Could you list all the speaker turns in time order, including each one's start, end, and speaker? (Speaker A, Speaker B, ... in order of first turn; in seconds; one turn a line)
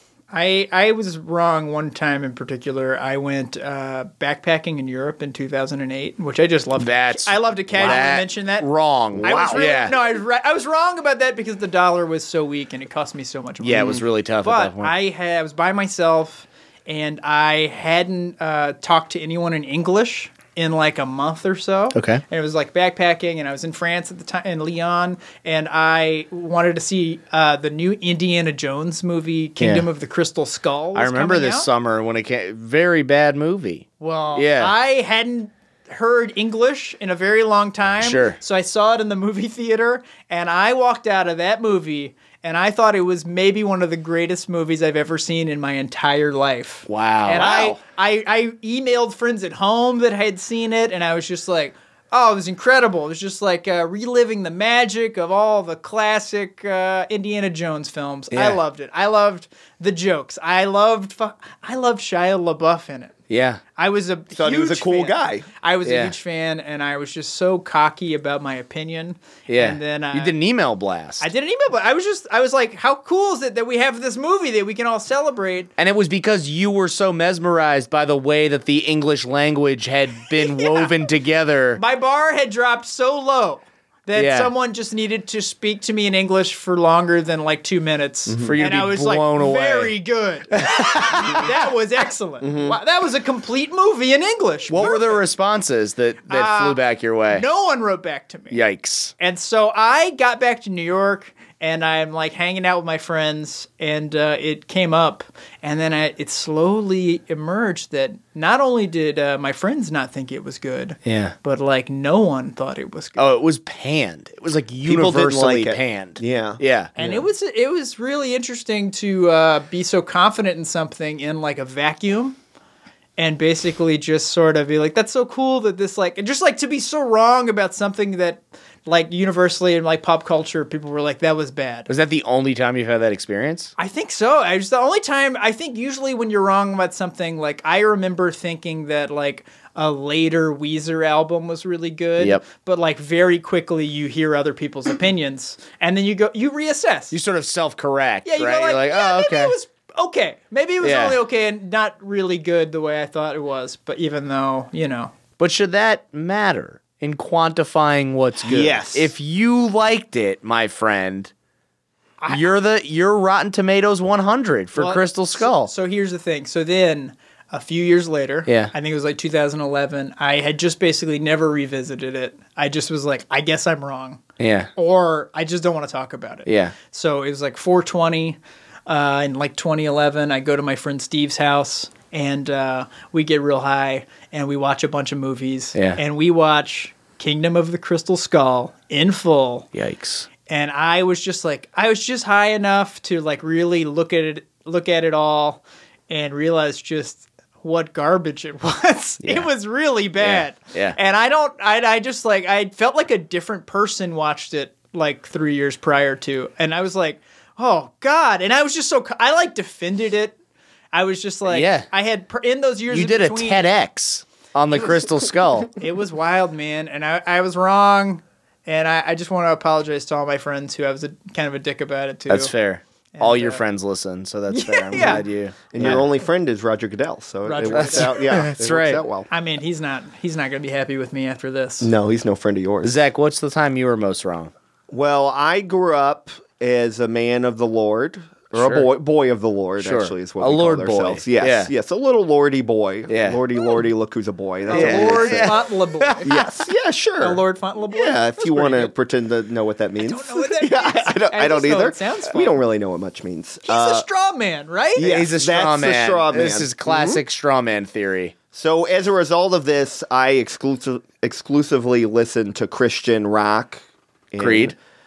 Speaker A: 0.3-8.7
Speaker B: 6.8-9.9
Speaker C: 9.2-9.7
Speaker A: 9.2-31.7
Speaker B: 13.6-14.9
Speaker B: 21.9-22.2
Speaker B: 29.6-29.9
Speaker B: 30.9-34.7
Speaker A: 34.0-63.1
Speaker B: 38.0-38.4
Speaker B: 46.9-47.7
Speaker C: 47.4-47.7
Speaker B: 58.3-58.6
Speaker B: 63.3-63.6
Speaker A: 63.8-70.3
Speaker C: 64.3-65.5
Speaker B: 65.8-66.1
Speaker B: 69.5-71.3
Speaker A: 71.2-75.7
Speaker B: 75.8-81.8
Speaker A: 80.4-80.9
Speaker A: 81.8-95.2
Speaker B: 84.2-84.5
Speaker C: 88.3-88.5
Speaker B: 88.4-89.9
Speaker B: 90.5-91.5
Speaker C: 92.4-92.8
Speaker B: 94.7-97.5
Speaker A: 96.3-96.8
Speaker A: 97.3-98.6
Speaker B: 98.5-99.1
Speaker A: 99.2-113.2
Speaker B: 111.0-111.3
Speaker B: 113.2-116.9
Speaker C: 114.8-117.2
Speaker A: 117.0-122.4
Speaker A: 123.2-131.9
Speaker B: 131.9-133.7
Speaker A: 133.8-147.1
Speaker B: 147.1-149.5
Speaker A: 148.2-155.1
Speaker B: 150.8-151.2
Speaker B: 155.4-161.3
Speaker C: 158.4-159.1
Speaker A: 162.2-162.5
Speaker B: 162.3-165.7
Speaker A: 164.7-174.2
Speaker B: 168.5-168.7
Speaker B: 174.4-174.7
Speaker A: 174.8-189.7
Speaker B: 176.5-176.7
Speaker B: 185.7-186.0
Speaker B: 189.7-190.3
Speaker A: 190.5-210.3
Speaker B: 199.2-199.5
Speaker B: 200.2-201.0
Speaker A: 210.9-213.7
Speaker B: 211.5-211.9
Speaker B: 212.9-215.7
Speaker A: 215.8-222.5
Speaker B: 222.3-226.0
Speaker A: 223.2-223.6
Speaker A: 224.5-225.2
Speaker C: 225.7-229.3
Speaker A: 227.4-228.2
Speaker B: 227.7-229.0
Speaker A: 229.3-231.9
Speaker C: 231.8-232.9
Speaker B: 232.8-234.5
Speaker C: 234.9-245.6
Speaker B: 238.5-238.9
Speaker B: 239.8-241.7
Speaker B: 243.1-243.4
Speaker A: 244.7-246.4
Speaker B: 244.7-246.4
Speaker C: 246.2-254.1
Speaker A: 247.2-248.9
Speaker A: 250.0-252.6
Speaker A: 253.7-255.1
Speaker C: 254.9-257.2
Speaker B: 255.0-258.3
Speaker C: 258.5-264.8
Speaker B: 264.4-264.7